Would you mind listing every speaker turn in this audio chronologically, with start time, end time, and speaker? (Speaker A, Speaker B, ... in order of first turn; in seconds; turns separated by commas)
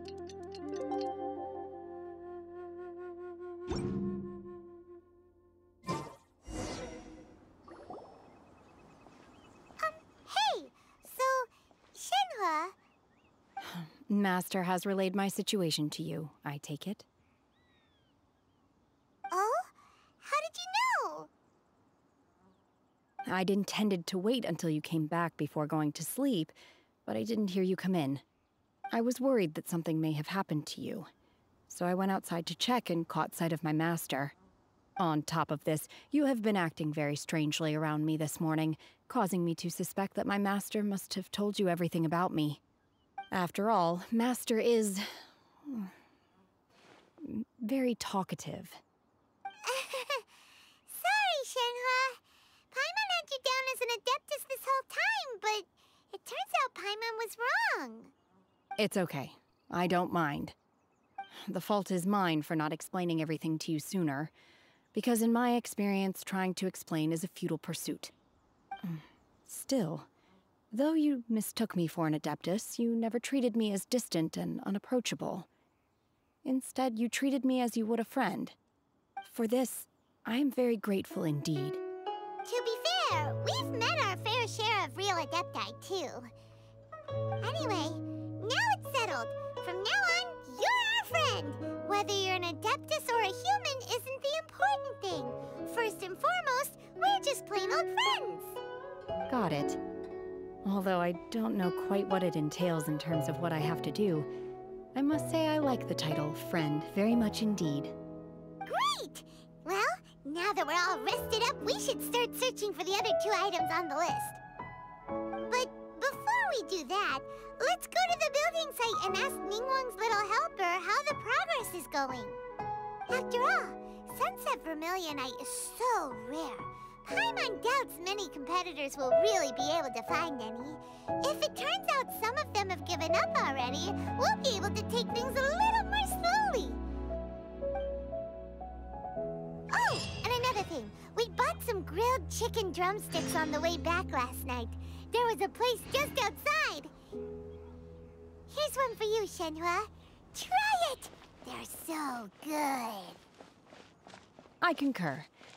Speaker A: 9.8-12.7, Speaker B: 13.6-17.1, Speaker A: 19.3-21.3, Speaker B: 23.2-28.2, Speaker B: 28.9-31.1, Speaker B: 31.7-34.3, Speaker B: 35.0-42.6, Speaker B: 43.3-45.9, Speaker B: 47.2-48.8, Speaker A: 49.6-50.3, Speaker A: 50.9-52.2, Speaker A: 52.7-58.1, Speaker B: 58.8-60.5, Speaker B: 61.3-64.3, Speaker B: 64.9-68.1, Speaker B: 68.8-70.1, Speaker B: 70.7-75.5, Speaker B: 76.4-78.6, Speaker B: 79.2-81.8, Speaker A: 82.4-86.3, Speaker A: 87.4-98.6, Speaker B: 99.3-99.8, Speaker B: 100.6-104.3, Speaker B: 104.9-107.9, Speaker A: 108.7-114.4, Speaker A: 115.5-122.4, Speaker A: 123.1-136.8, Speaker A: 139.7-146.9, Speaker A: 148.5-153.2, Speaker B: 154.6-155.3